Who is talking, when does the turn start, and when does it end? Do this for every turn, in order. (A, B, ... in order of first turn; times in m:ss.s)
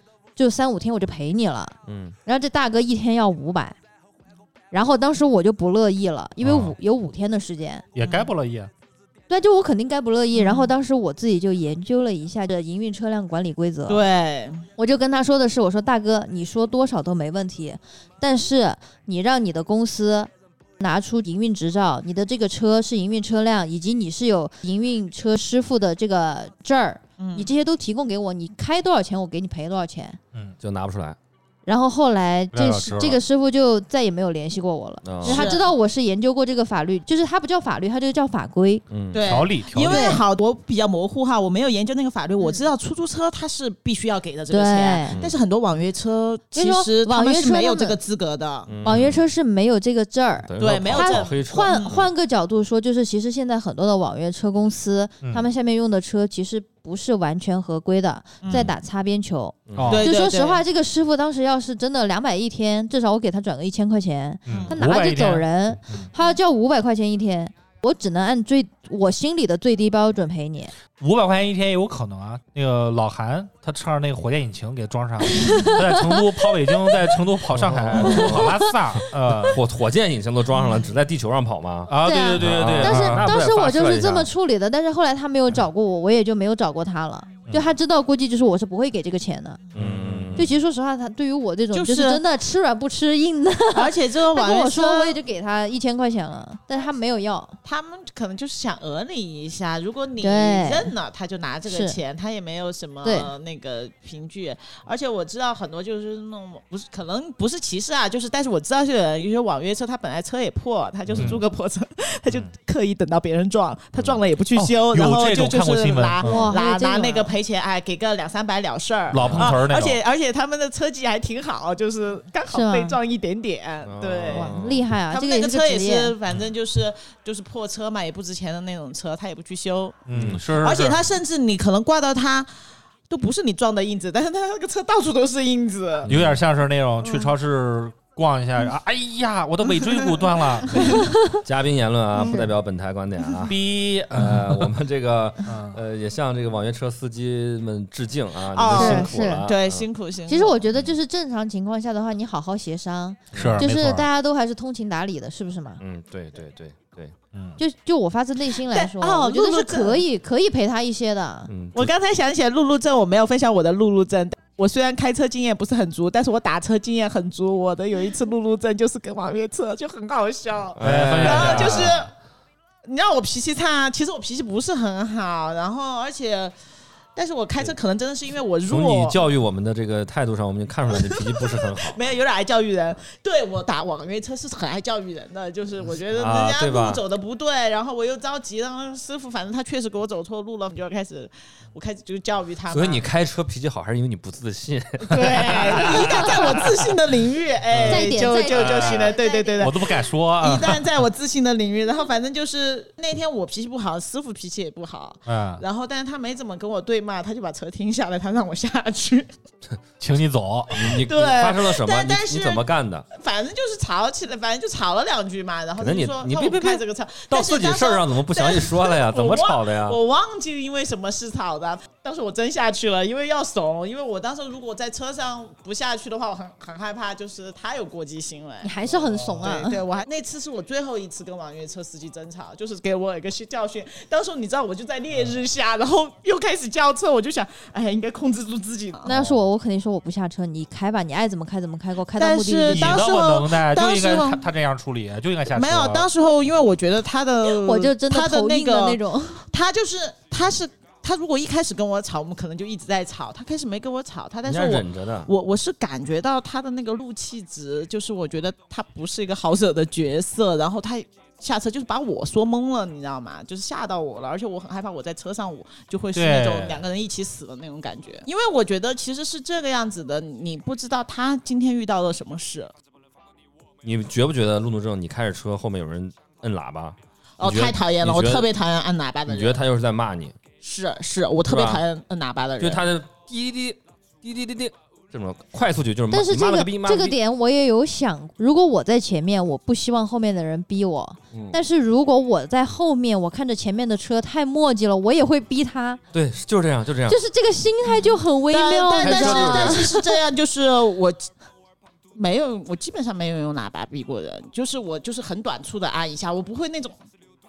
0:00.4-0:03.8 A
0:01.9-0:02.2 B
0:04.7-0:07.8 A
0:06.4-0:06.8 C
0:08.0-0:08.7 C
0:08.0-0:08.3 D
0:09.3-0:14.0 A
0:10.3-0:10.7 D
0:13.9-0:14.7 D
0:14.8-0:30.2 A
0:27.2-0:27.5 D
0:30.6-0:31.2 B
0:31.7-0:38.8 A
0:32.5-0:33.2 C
0:35.0-0:35.6 B
0:35.2-0:35.7 D
0:38.9-0:39.4 B
0:39.1-0:48.8 D
0:39.3-0:40.2 C
0:39.8-0:40.2 A
0:42.4-0:42.7 A
0:44.5-0:45.2 A
0:45.1-0:45.4 B
0:46.5-0:48.0 A
0:48.7-0:49.2 B
0:48.8-1:10.7 A
0:50.4-0:52.1 B
0:50.6-0:52.0 D
0:58.4-0:58.7 D
0:59.7-1:00.0 B
0:59.8-1:00.0 C
0:59.9-1:00.6 D
1:04.5-1:06.1 C
1:04.5-1:04.8 D
1:11.0-1:19.6 C
1:15.3-1:16.9 A
1:17.5-1:18.6 B
1:18.0-1:18.7 A
1:19.4-1:24.3 B
1:20.6-1:20.9 D
1:21.9-1:23.3 C
1:22.0-1:29.6 A
1:29.7-1:30.5 B
1:29.8-1:30.5 C
1:30.4-1:37.6 A
1:31.7-1:32.2 D
1:33.7-1:35.2 D
1:37.6-2:04.5 D
1:40.2-1:40.9 A
1:41.7-1:42.0 A
1:43.0-1:43.3 A
1:51.1-1:51.4 B
1:51.2-1:51.4 C
1:54.6-1:56.5 C
1:56.2-1:57.3 A
1:59.1-2:00.0 C
1:59.2-1:59.6 B
2:02.5-2:03.0 A
2:03.8-2:04.9 B
2:04.3-2:06.2 A
2:05.1-2:12.5 D
2:10.1-2:11.0 C
2:10.1-2:10.4 B
2:13.1-2:16.1 D
2:16.0-2:16.4 B
2:16.1-2:21.1 C
2:17.0-2:17.3 D
2:19.7-2:21.1 D
2:21.0-2:21.4 A
2:21.4-2:23.6 B
2:22.2-2:22.4 D
2:23.4-2:24.7 C
2:24.1-2:29.9 B
2:25.5-2:25.8 C
2:28.5-2:30.6 D
2:28.7-2:29.4 A
2:30.3-2:35.8 A
2:33.3-2:33.7 B
2:33.3-2:34.1 C
2:35.8-2:37.2 B
2:37.3-2:37.6 C
2:37.6-2:41.5 A
2:38.6-2:40.0 D
2:41.5-2:41.9 B
2:41.7-2:52.1 D
2:50.8-2:52.1 B
2:50.8-2:52.0 C
2:52.8-2:56.6 D
2:57.2-2:59.2 D
2:58.6-3:02.0 B
3:00.9-3:13.0 D
3:06.1-3:07.0 B
3:12.7-3:16.7 B
3:15.1-3:29.3 D
3:17.7-3:21.0 C
3:17.9-3:19.7 A
3:25.3-3:25.6 C
3:30.0-3:30.9 C
3:30.7-3:33.1 B
3:30.7-3:48.7 D
3:35.8-3:40.0 B
3:48.6-3:49.8 A
3:49.4-3:59.1 D
3:59.0-4:03.0 A
3:59.1-3:59.4 B
4:02.2-4:04.4 D
4:02.7-4:06.1 C
4:05.5-4:32.7 D
4:07.5-4:09.4 A
4:14.4-4:15.3 B
4:26.2-4:26.8 C
4:33.8-4:38.5 B
4:37.4-4:39.6 D
4:39.3-4:40.4 B
4:40.6-4:42.8 D
4:41.4-4:41.8 B
4:42.6-4:47.2 B
4:46.1-4:56.0 A
4:51.3-4:51.6 B
4:56.1-4:57.2 B
4:57.1-5:00.1 A
4:57.9-5:01.3 D
4:59.0-5:00.0 B
5:02.2-5:07.0 D